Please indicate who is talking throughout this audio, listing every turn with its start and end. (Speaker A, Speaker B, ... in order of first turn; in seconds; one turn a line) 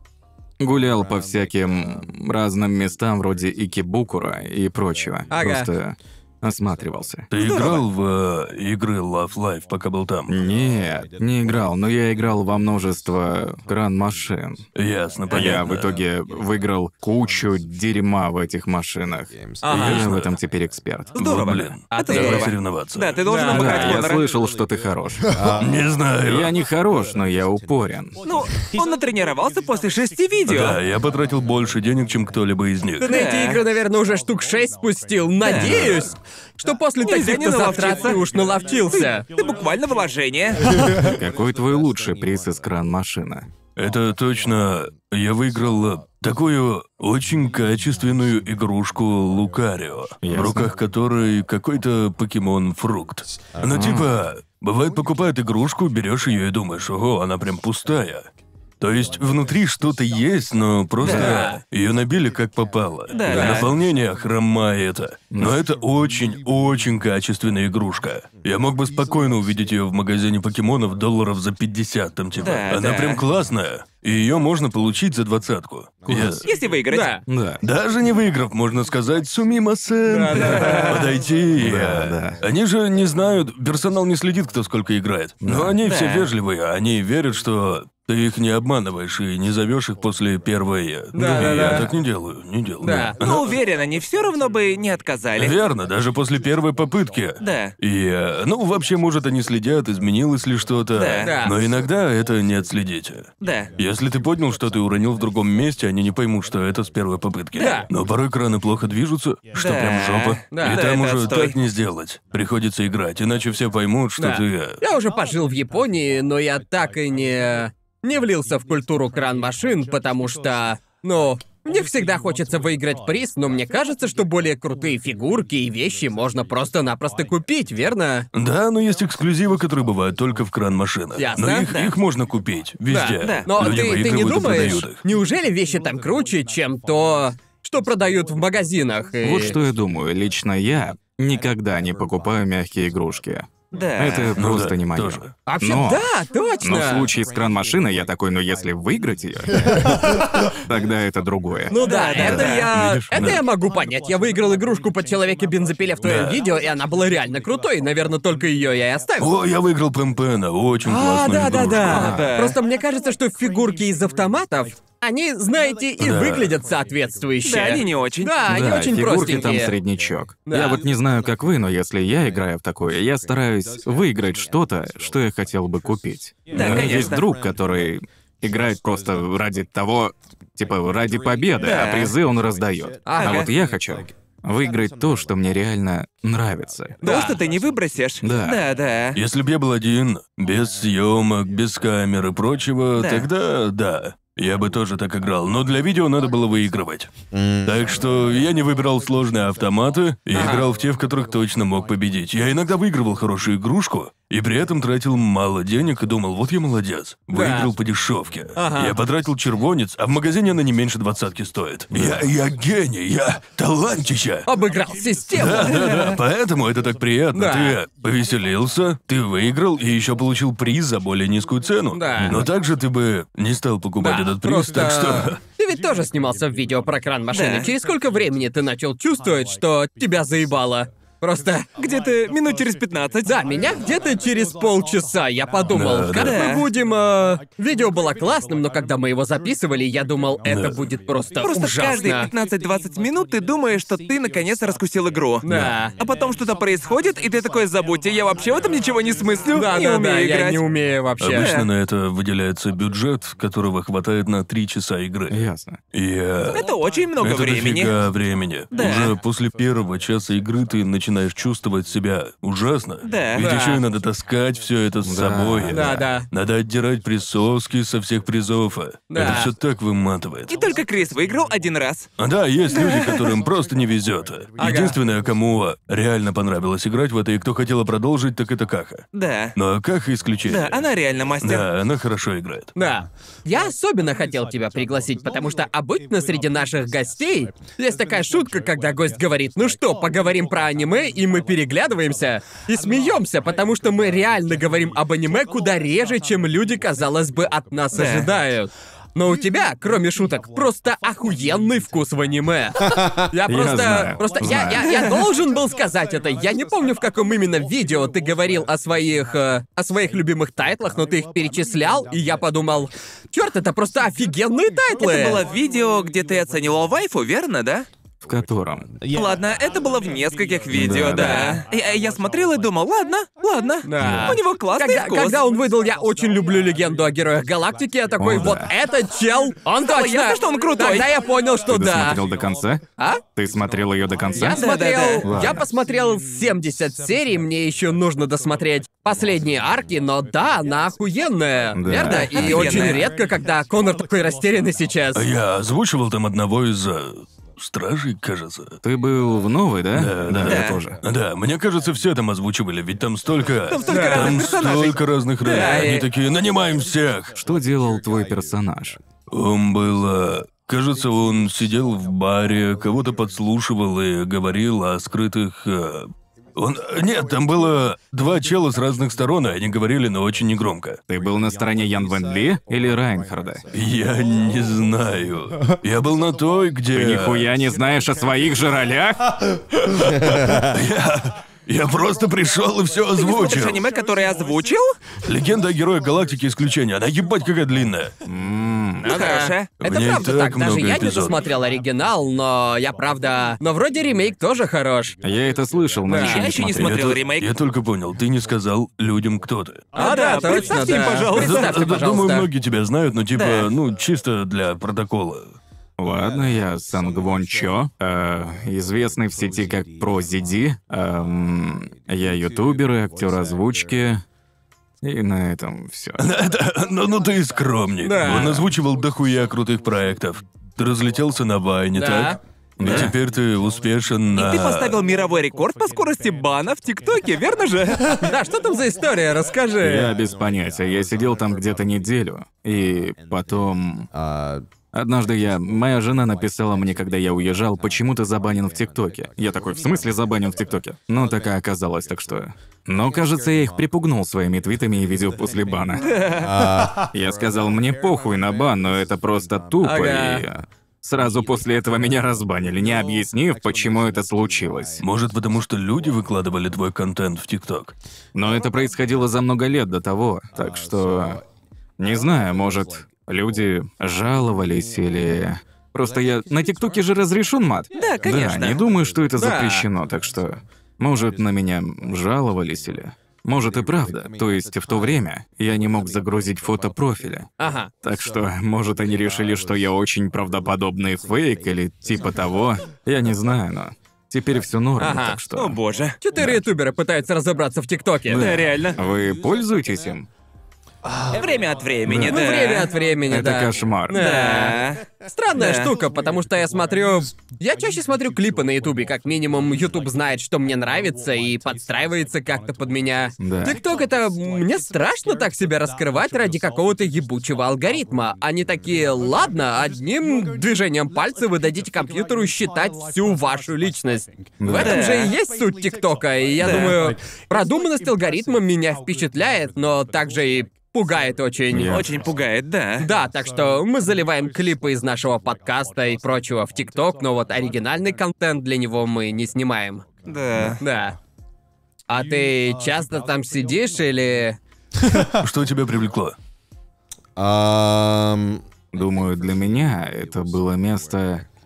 Speaker A: 0.6-7.3
Speaker B: 5.3-5.7
Speaker C: 7.3-10.3
Speaker D: 7.4-7.8
Speaker A: 10.3-14.7
Speaker C: 14.8-16.0
Speaker A: 15.3-21.7
Speaker E: 19.3-19.6
Speaker B: 19.6-20.1
Speaker C: 19.7-20.3
Speaker D: 21.1-24.2
Speaker C: 21.2-23.2
Speaker B: 21.9-22.5
Speaker B: 23.2-24.1
Speaker A: 23.4-25.6
Speaker E: 25.3-25.9
Speaker C: 25.6-26.5
Speaker A: 26.2-28.2
Speaker D: 28.2-30.8
Speaker C: 30.5-33.1
Speaker B: 33.0-39.2
Speaker D: 33.0-33.6
Speaker D: 35.4-35.9
Speaker A: 35.6-36.0
Speaker D: 37.0-38.2
Speaker D: 38.9-40.6
Speaker A: 40.9-43.5
Speaker C: 43.8-58.3
Speaker A: 50.2-50.7
Speaker A: 53.6-54.1
Speaker C: 58.8-76.5
Speaker D: 61.0-61.5
Speaker B: 61.0-61.6
Speaker D: 63.1-63.7
Speaker B: 63.3-63.7
Speaker A: 65.3-65.6
Speaker D: 72.4-73.2
Speaker A: 76.1-76.5
Speaker D: 76.4-77.2
Speaker B: 76.9-77.2
Speaker A: 77.2-77.6
Speaker C: 77.6-93.5
Speaker B: 80.1-81.1
Speaker D: 80.6-81.0
Speaker A: 81.6-82.4
Speaker A: 85.4-85.8
Speaker D: 85.8-86.3
Speaker B: 91.1-91.9
Speaker B: 92.8-93.1
Speaker D: 93.2-95.6
Speaker C: 95.4-114.8
Speaker D: 97.4-97.7
Speaker D: 100.9-101.3
Speaker B: 101.2-101.5
Speaker D: 103.4-103.7
Speaker D: 107.6-107.8
Speaker B: 107.6-107.9
Speaker D: 109.5-111.6
Speaker B: 110.5-110.8
Speaker B: 114.2-128.3
Speaker C: 128.3-135.0
Speaker B: 131.2-131.7
Speaker D: 131.7-131.9
Speaker B: 132.9-139.6
Speaker D: 133.2-133.5
Speaker A: 139.2-146.1
Speaker D: 143.7-144.3
Speaker C: 144.4-145.3
Speaker B: 145.5-147.1
Speaker A: 146.6-152.6
Speaker B: 151.7-159.3
Speaker D: 151.7-152.7
Speaker C: 152.4-153.4
Speaker C: 156.0-156.4
Speaker C: 159.2-162.2
Speaker B: 160.8-169.7
Speaker D: 161.9-162.6
Speaker A: 161.9-162.2
Speaker C: 166.0-166.6
Speaker D: 167.4-168.4
Speaker A: 168.4-187.0
Speaker B: 170.5-170.8
Speaker D: 176.5-177.3
Speaker D: 181.6-182.1
Speaker B: 183.1-183.5
Speaker D: 183.2-183.5
Speaker D: 187.0-189.2
Speaker B: 187.0-187.4
Speaker A: 188.2-188.6
Speaker C: 189.2-197.1
Speaker D: 193.0-193.3
Speaker E: 197.3-197.9
Speaker C: 197.6-214.5
Speaker B: 200.3-200.7
Speaker B: 207.3-207.7
Speaker B: 208.6-209.0
Speaker A: 211.9-212.2
Speaker B: 214.5-216.2
Speaker C: 215.3-225.4
Speaker B: 217.3-217.8
Speaker B: 221.9-222.5
Speaker B: 224.0-231.7
Speaker D: 227.3-227.7
Speaker D: 231.8-233.6
Speaker B: 233.2-242.3
Speaker C: 235.7-236.4
Speaker D: 236.2-236.7
Speaker C: 240.4-240.8
Speaker D: 241.4-245.4
Speaker B: 245.4-245.9
Speaker A: 245.5-245.8
Speaker D: 245.9-250.6
Speaker B: 249.5-251.5
Speaker C: 251.2-255.4
Speaker D: 251.3-251.7
Speaker A: 255.3-255.8
Speaker C: 255.9-256.6
Speaker D: 256.5-257.9
Speaker C: 257.2-270.5
Speaker D: 258.7-259.1
Speaker D: 263.0-263.4
Speaker B: 263.4-263.8
Speaker A: 265.0-266.1
Speaker B: 265.7-266.3
Speaker B: 269.1-269.5
Speaker D: 270.5-272.1
Speaker C: 272.2-280.8
Speaker D: 272.7-273.2
Speaker B: 274.6-275.0
Speaker D: 279.1-279.6
Speaker D: 280.5-281.6
Speaker C: 281.4-282.7
Speaker B: 282.7-315.4
Speaker D: 297.9-298.3
Speaker A: 303.4-305.0
Speaker D: 304.8-305.1
Speaker D: 315.0-317.9
Speaker A: 318.2-318.9
Speaker D: 319.1-325.4
Speaker A: 320.7-321.6
Speaker B: 321.1-321.6
Speaker B: 323.8-332.2
Speaker A: 324.0-324.4
Speaker A: 328.2-328.7
Speaker D: 329.8-331.1
Speaker A: 331.7-334.6
Speaker B: 334.4-345.3
Speaker D: 334.4-335.2
Speaker A: 335.2-335.6
Speaker A: 341.7-343.0
Speaker D: 342.0-343.1
Speaker C: 345.1-348.8
Speaker A: 348.8-351.0
Speaker C: 349.9-357.4
Speaker D: 350.4-350.8
Speaker D: 353.7-355.9
Speaker B: 353.9-354.4
Speaker B: 355.4-356.1
Speaker A: 357.4-359.0
Speaker C: 359.3-371.0
Speaker A: 371.1-373.6
Speaker C: 373.7-377.5
Speaker A: 376.9-379.6
Speaker C: 380.0-383.8
Speaker D: 383.2-384.9
Speaker C: 385.2-388.1
Speaker A: 388.2-389.2
Speaker D: 389.0-389.7
Speaker B: 389.1-395.1
Speaker C: 389.8-391.4
Speaker A: 395.2-396.9
Speaker B: 396.1-396.5
Speaker D: 396.1-397.5
Speaker C: 396.7-399.9
Speaker D: 399.9-401.8
Speaker B: 399.9-402.5
Speaker C: 401.3-405.6
Speaker D: 403.3-403.7
Speaker A: 406.0-414.2
Speaker A: 415.0-416.2
Speaker C: 416.2-424.9
Speaker B: 418.0-418.7
Speaker B: 421.9-422.4
Speaker A: 422.8-423.1
Speaker D: 424.3-428.1
Speaker B: 428.2-430.1
Speaker A: 429.8-434.1
Speaker E: 434.1-434.6
Speaker A: 434.9-446.1
Speaker D: 446.0-446.5
Speaker E: 446.4-447.1
Speaker A: 447.0-455.0
Speaker B: 449.8-450.4
Speaker C: 455.0-457.9
Speaker A: 458.3-461.4
Speaker A: 462.0-477.5
Speaker D: 467.9-468.8
Speaker B: 469.4-469.9
Speaker B: 477.6-477.9
Speaker A: 478.0-485.8
Speaker B: 485.0-485.4
Speaker D: 485.5-486.2
Speaker B: 486.2-488.4
Speaker A: 486.4-486.6
Speaker D: 488.3-489.0
Speaker A: 488.3-490.3
Speaker D: 491.3-492.9
Speaker A: 492.0-492.4
Speaker B: 492.3-522.1
Speaker A: 493.3-494.2
Speaker D: 494.1-495.9
Speaker A: 503.4-503.8
Speaker A: 514.6-515.0
Speaker D: 514.7-515.3
Speaker D: 516.6-517.0
Speaker A: 521.7-522.1
Speaker D: 521.7-523.1
Speaker B: 523.0-530.0
Speaker D: 530.2-530.8
Speaker B: 530.8-531.2
Speaker B: 532.1-534.6
Speaker C: 535.2-536.4
Speaker E: 537.4-538.6
Speaker A: 538.9-541.4